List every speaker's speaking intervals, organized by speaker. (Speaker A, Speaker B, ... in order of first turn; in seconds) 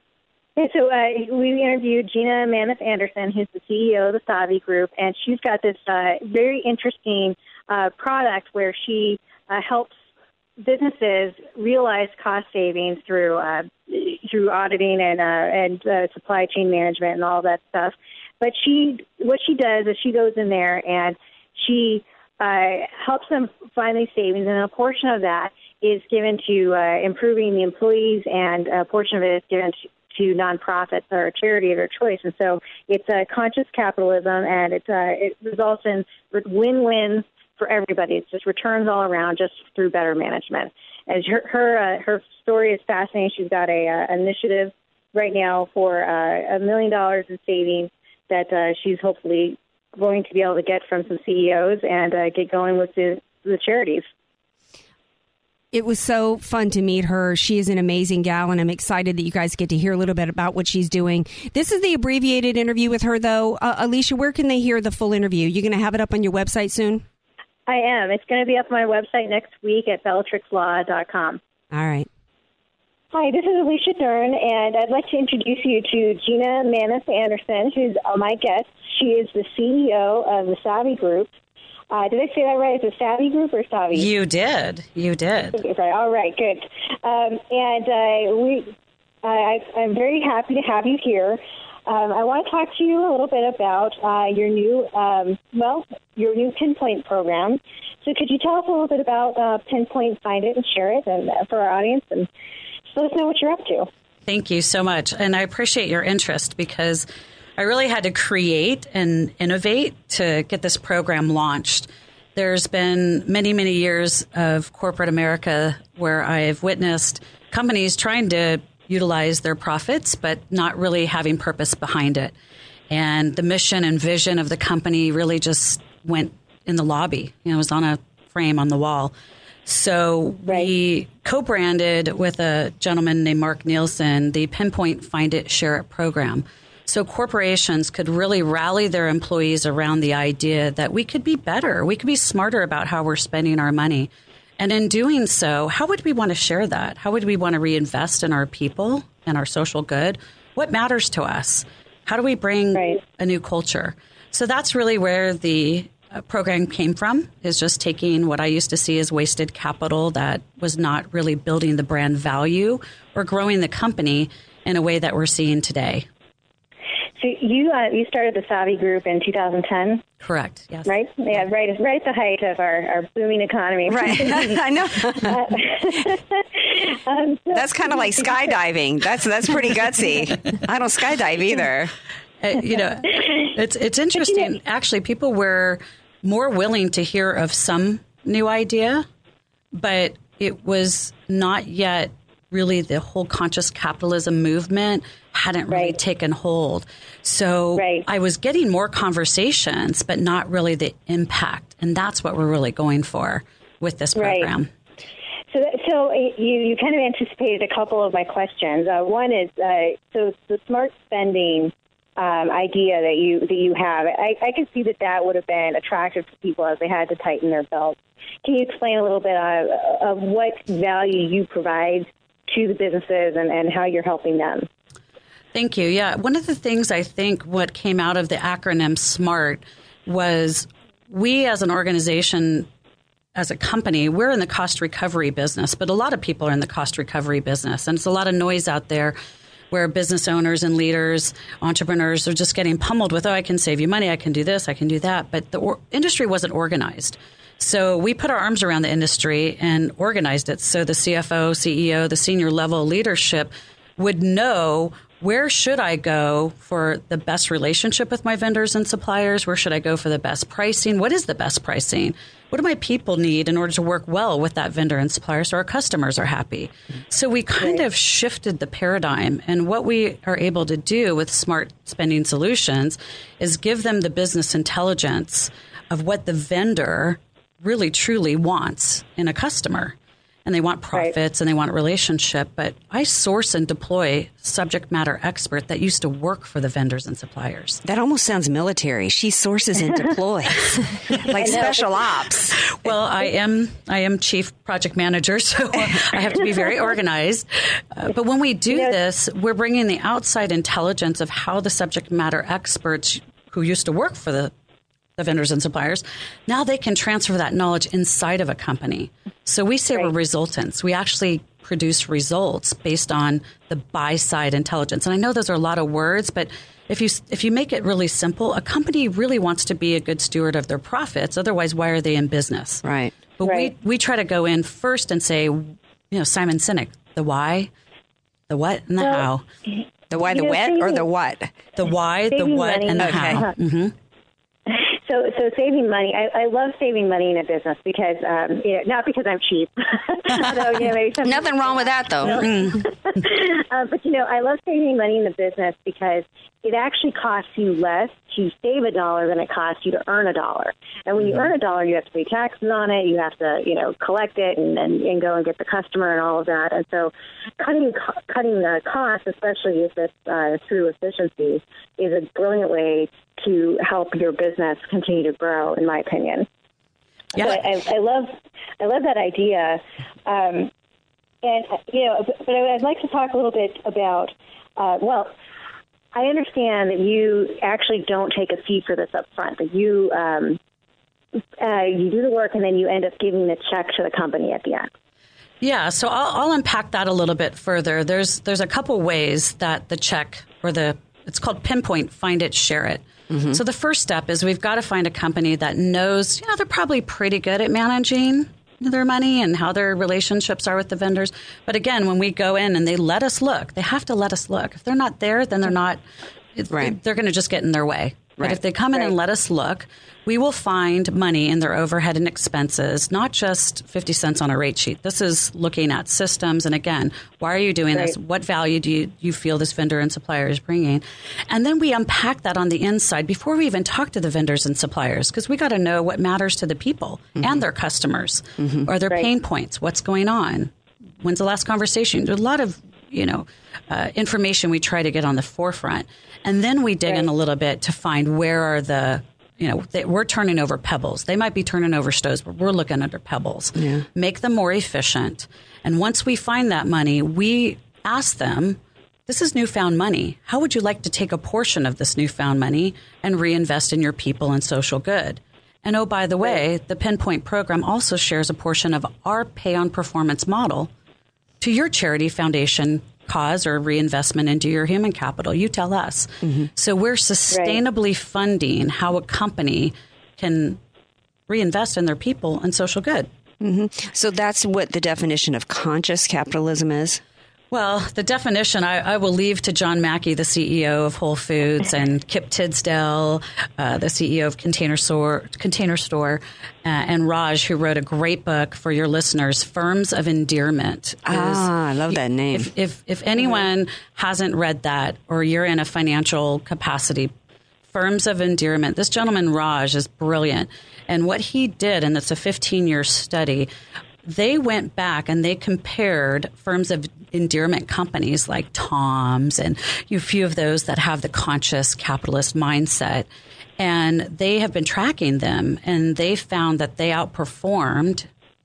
Speaker A: 0.6-9.9, 10.6-54.0, 67.7-71.4, 73.1-81.3, 81.9-84.1, 85.6-102.3, 102.9-103.9, 152.7-153.0, 167.2-170.0, 170.9-174.5, 175.2-178.5, 183.1-183.5, 184.2-184.5, 195.7-196.0, 197.7-198.1, 204.2-204.5, 205.5-224.7, 291.3-291.9, 298.7-298.9, 323.4-323.7, 329.0-329.3, 330.3-331.1, 332.3-333.6, 334.7-366.4, 367.4-370.7, 371.4-375.3, 376.1-380.6, 381.6-384.9, 467.5-467.8, 493.4-493.6
Speaker B: 55.7-67.0, 71.7-72.1, 173.9-175.4, 177.5-181.9, 287.9-292.6, 322.8-323.1, 330.1-331.6, 332.9-333.4, 341.2-342.5, 393.3-393.6, 406.7-407.0, 427.4-427.6, 428.6-428.9, 443.8-444.1, 466.4-466.7, 473.6-477.2, 491.2-492.7
Speaker C: 83.9-85.6, 104.3-122.3, 122.9-129.1, 129.7-166.1, 170.2-171.4, 182.4-189.1, 189.7-204.7, 225.5-232.7, 233.4-239.2, 239.7-287.8, 292.7-304.5, 305.2-322.8, 323.4-327.7, 328.5-329.4, 331.8-333.9, 342.4-342.8, 367.4-367.7, 385.6-406.0, 406.6-460.9, 461.6-470.8, 471.5-473.3, 477.7-497.3, 497.9-503.7, 504.2-518.3